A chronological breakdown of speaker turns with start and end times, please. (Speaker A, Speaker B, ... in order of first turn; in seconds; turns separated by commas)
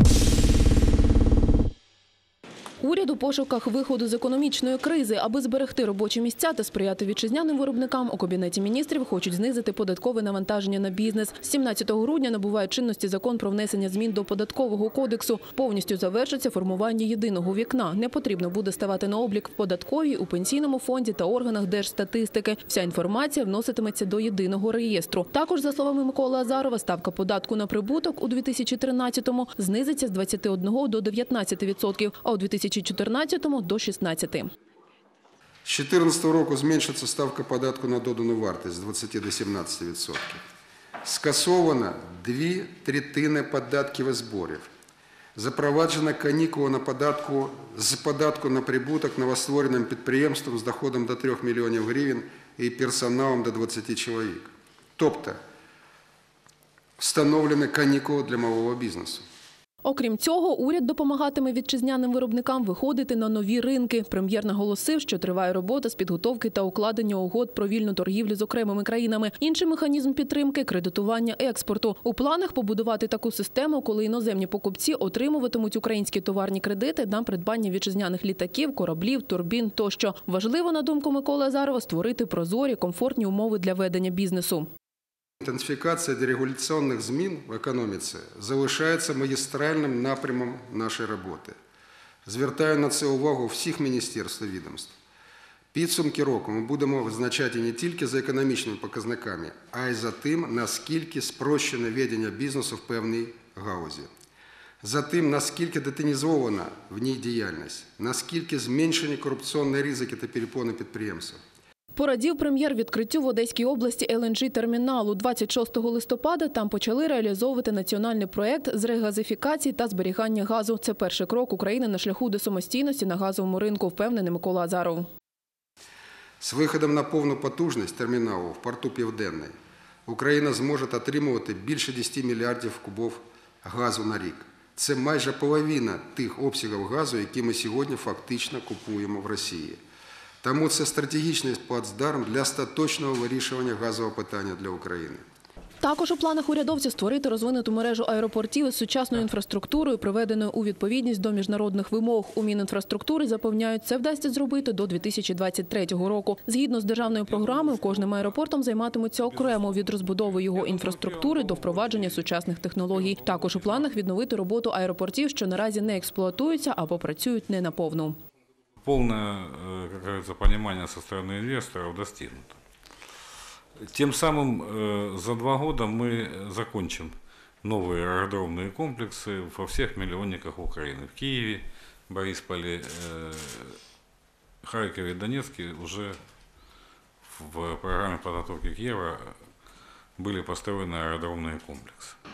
Speaker A: 2.8-34.5, Speaker B: 35.6-40.4, Speaker B: 41.0-44.7, Speaker B: 45.3-55.4, Speaker B: 57.0-59.2, Speaker A: 59.8-84.7, Speaker B: 85.4-91.5, Speaker B: 92.2-94.9, Speaker B: 95.7-104.1, Speaker B: 104.8-111.4, Speaker A: 112.0-125.1, Speaker B: 126.4-129.5, Speaker B: 130.1-139.8, Speaker B: 140.4-145.2, Speaker A: 145.8-168.2, Speaker C: 157.2-158.3, Speaker C: 159.3-162.3, Speaker C: 162.9-163.9, Speaker C: 168.8-172.6, Speaker C: 173.8-183.8, Speaker C: 184.6-186.2, Speaker C: 187.3-189.5, Speaker C: 190.2-192.2